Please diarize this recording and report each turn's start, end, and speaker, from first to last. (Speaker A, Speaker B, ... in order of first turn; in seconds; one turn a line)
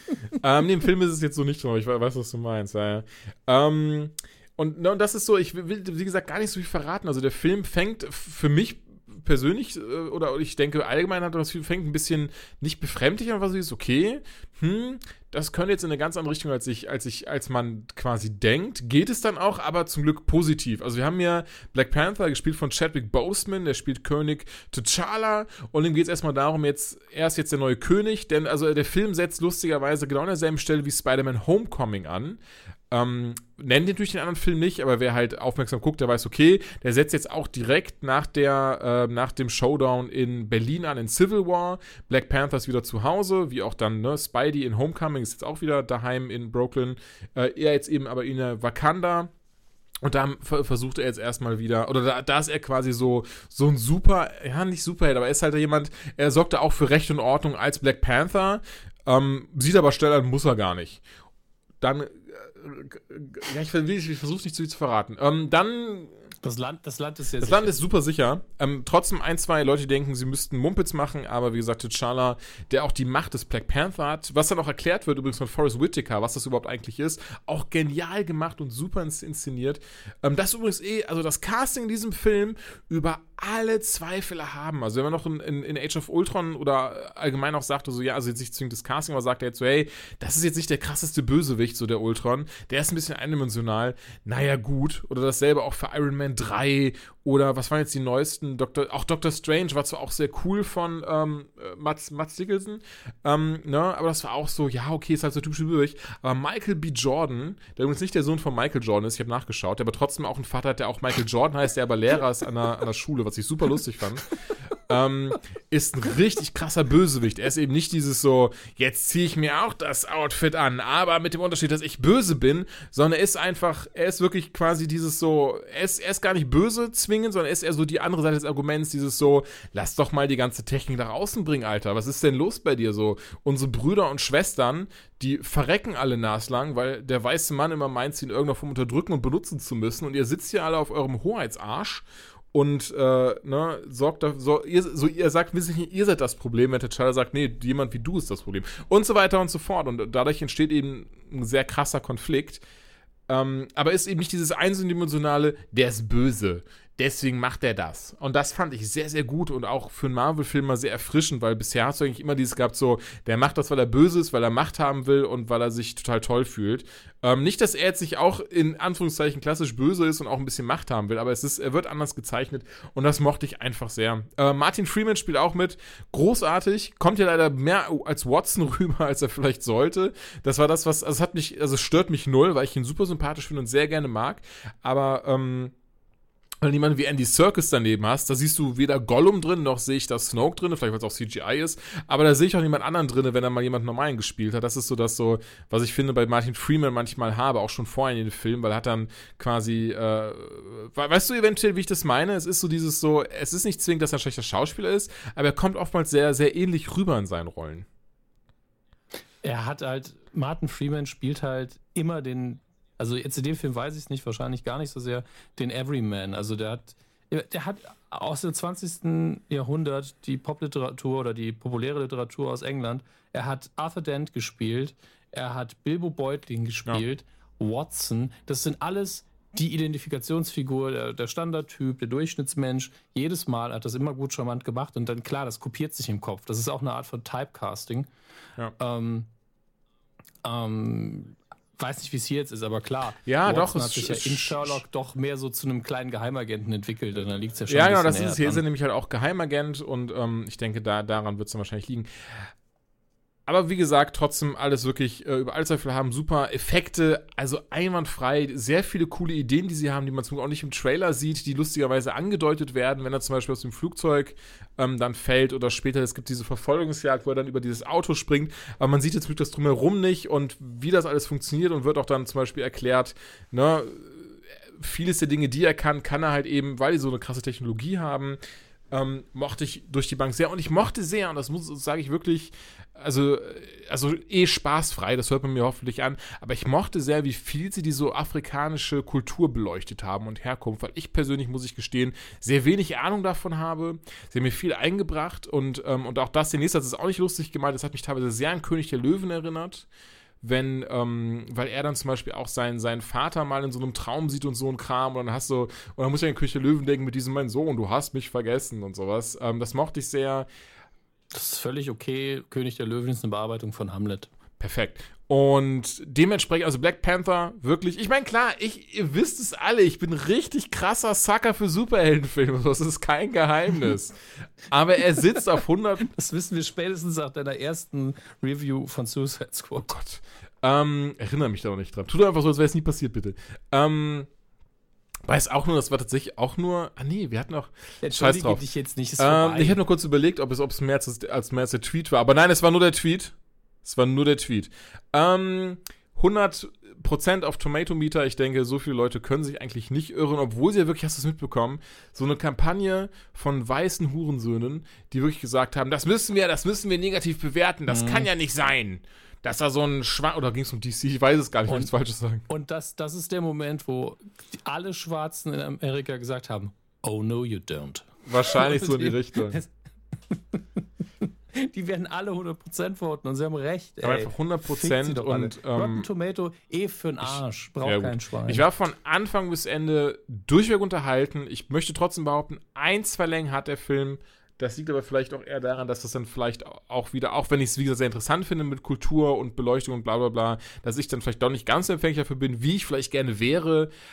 Speaker A: 0.3-32.4
Speaker A: 32.9-49.3
Speaker A: 50.0-61.0
Speaker A: 61.8-66.2
Speaker B: 66.4-67.8
Speaker A: 67.4-152.6
Speaker A: 153.3-185.7
Speaker A: 186.6-207.9
Speaker B: 209.4-238.1
Speaker B: 238.8-239.3
Speaker B: 240.4-248.6
Speaker A: 243.3-244.8
Speaker A: 247.7-252.5
Speaker A: 253.5-278.4
Speaker A: 278.9-299.9
Speaker A: 300.4-310.5
Speaker B: 311.3-314.3
Speaker A: 314.6-324.2
Speaker A: 324.7-326.1
Speaker B: 326.1-329.9
Speaker A: 329.8-334.3
Speaker A: 335.3-338.6
Speaker B: 338.0-339.8
Speaker A: 339.2-362.4
Speaker B: 357.9-358.3
Speaker B: 361.7-361.9
Speaker B: 362.5-370.8
Speaker A: 368.2-369.6
Speaker B: 371.5-378.6
Speaker A: 374.0-376.1
Speaker A: 377.3-393.9